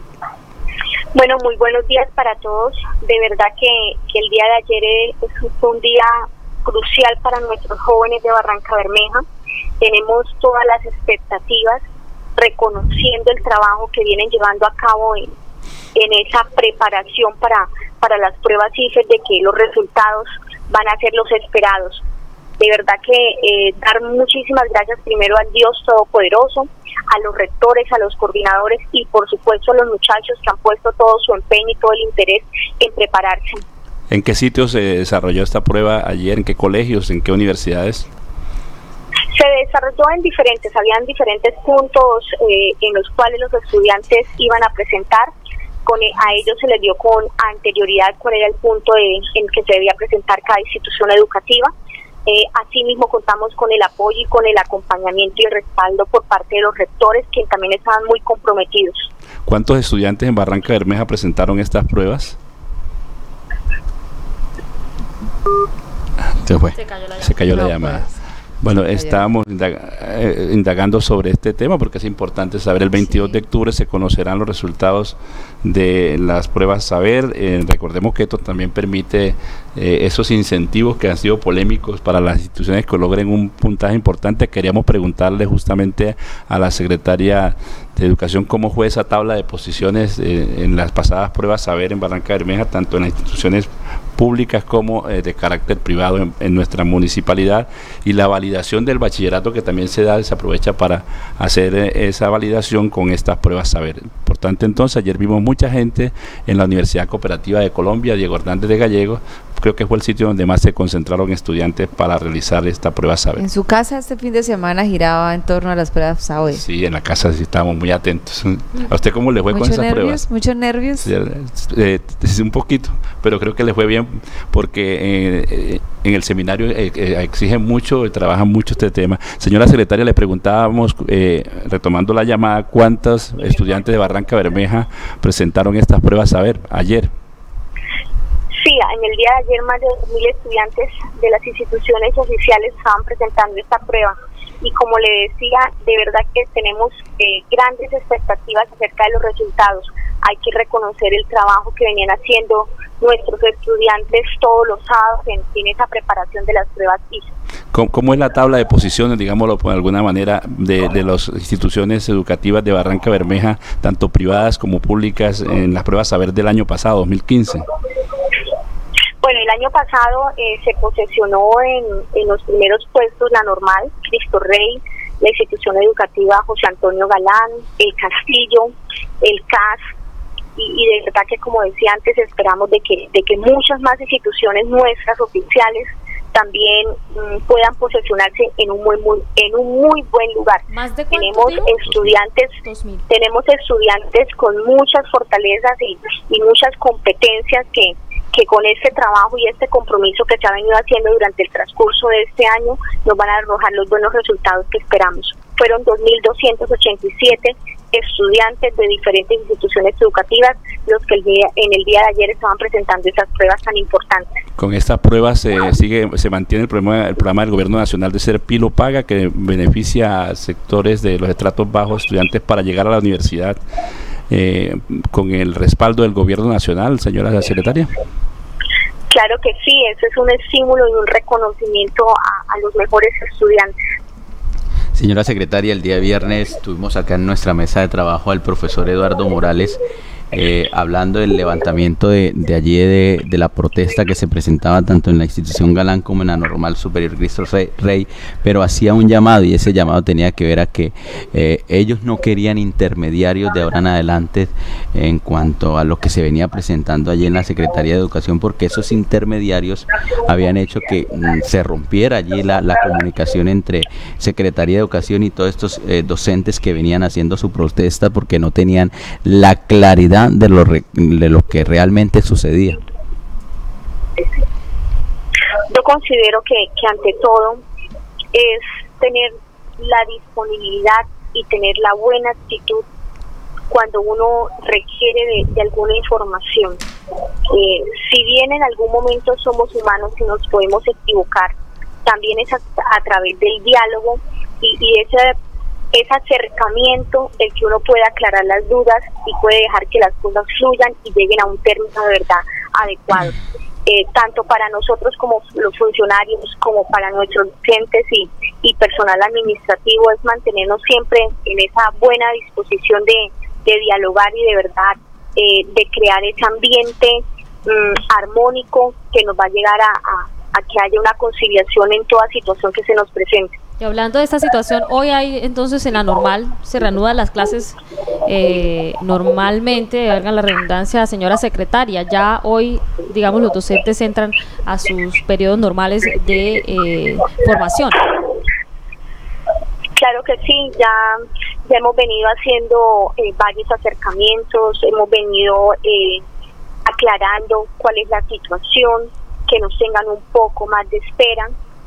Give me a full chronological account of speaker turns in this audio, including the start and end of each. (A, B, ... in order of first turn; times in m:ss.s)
0:01.1-0:09.2 A
0:09.8-0:11.8 A
0:12.4-0:15.3 A
0:15.9-0:22.0 A
0:22.6-0:33.6 A
0:34.1-0:38.1 B
0:39.3-0:45.3 A
0:45.8-0:51.7 A
0:52.2-0:59.1 A
0:59.4-1:02.4 B
1:06.4-1:06.8 C
1:06.7-1:08.0 D
1:07.2-1:08.1 B
1:07.6-1:08.0 E
1:08.6-1:53.4 B
1:08.9-1:09.2 E
1:53.4-1:56.6 E
1:56.5-2:00.2 B
1:59.5-2:01.1 E
2:01.0-2:17.1 B
2:18.5-2:37.3 A
2:37.7-2:47.6 B
2:49.2-2:59.8 A
3:00.6-3:12.6 A
3:10.7-3:11.8 D
3:12.6-3:13.0 D
3:13.1-3:34.4 A
3:34.6-3:43.6 B
3:44.3-3:47.9 B
3:49.1-3:53.7 A
3:54.9-4:32.8 C
4:35.7-4:37.6 A
4:38.3-4:42.8 A
4:43.7-4:46.8 A
4:47.5-4:55.3 A
4:55.9-5:23.5 A
5:23.8-5:38.2 D
5:40.0-5:46.2 A
5:46.8-5:51.5 A